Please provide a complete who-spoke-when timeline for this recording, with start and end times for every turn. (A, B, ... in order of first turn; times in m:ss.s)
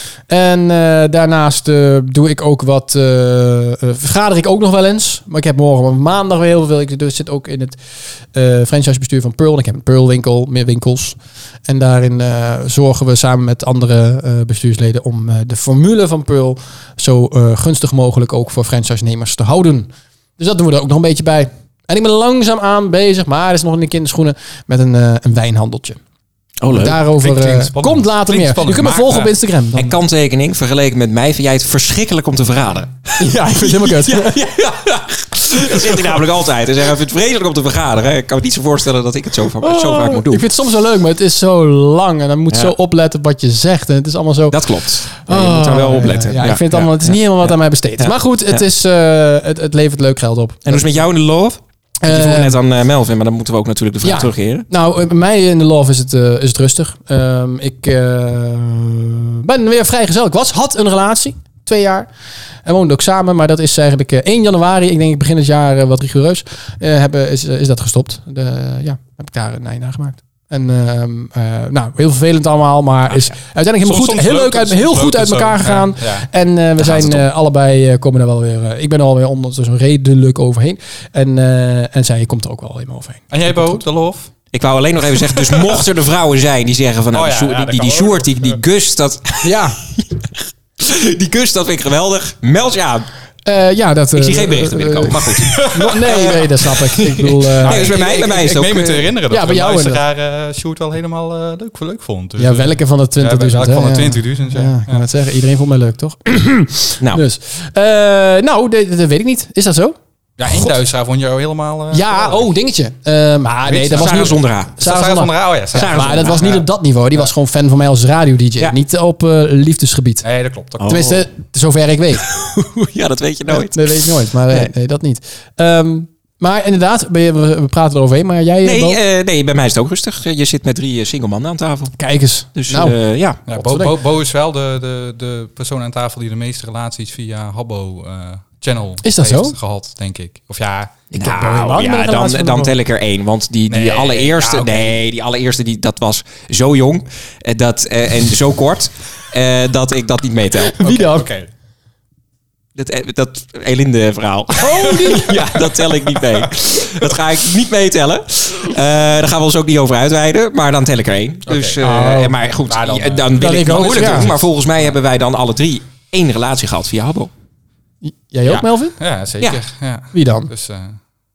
0:00.3-0:26.0 A
0:26.6-0:27.0 B
0:26.7-0:29.9 A
0:27.1-0:29.3 C
0:29.8-0:40.5 B
0:33.2-0:34.4 A
0:35.7-0:36.2 A
0:39.6-0:51.0 A
0:42.5-0:42.8 B
0:44.5-0:48.6 B
0:50.7-0:54.7 B
0:52.0-0:52.6 A
0:54.0-1:02.1 A
1:02.7-1:23.8 A
1:13.8-1:16.3 C
1:16.8-1:17.3 B
1:23.3-1:24.3 C
1:24.5-1:33.1 B
1:27.1-1:28.6 C
1:29.4-1:29.8 A
1:33.4-1:38.0 A
1:34.2-1:39.1 B
1:35.5-1:36.4 C
1:37.6-1:45.0 C
1:39.3-1:40.0 A
1:42.4-1:50.8 A
1:50.4-1:52.5 C
1:51.9-2:00.2 A
1:53.7-1:56.7 C
1:53.9-1:54.8 B
1:55.7-1:56.6 B
2:00.2-2:00.9 C
2:00.8-2:01.3 B
2:00.8-2:02.3 A
2:02.3-2:04.7 B
2:03.5-2:09.0 A
2:08.6-2:12.0 B
2:12.0-2:13.0 A
2:12.5-2:13.4 B
2:13.5-2:21.1 C
2:13.5-2:14.0 A
2:19.0-2:19.6 A
2:21.1-2:30.9 B
2:21.2-2:22.7 A
2:23.7-2:25.0 C
2:30.8-2:31.3 A
2:30.8-2:31.5 C
2:32.8-2:47.3 B
2:34.6-2:35.7 A
2:41.5-2:42.1 C
2:41.8-2:42.4 A
2:42.6-2:44.9 C
2:43.4-2:44.3 A
2:48.0-2:49.0 A
2:48.4-2:51.0 C
2:50.1-2:50.5 A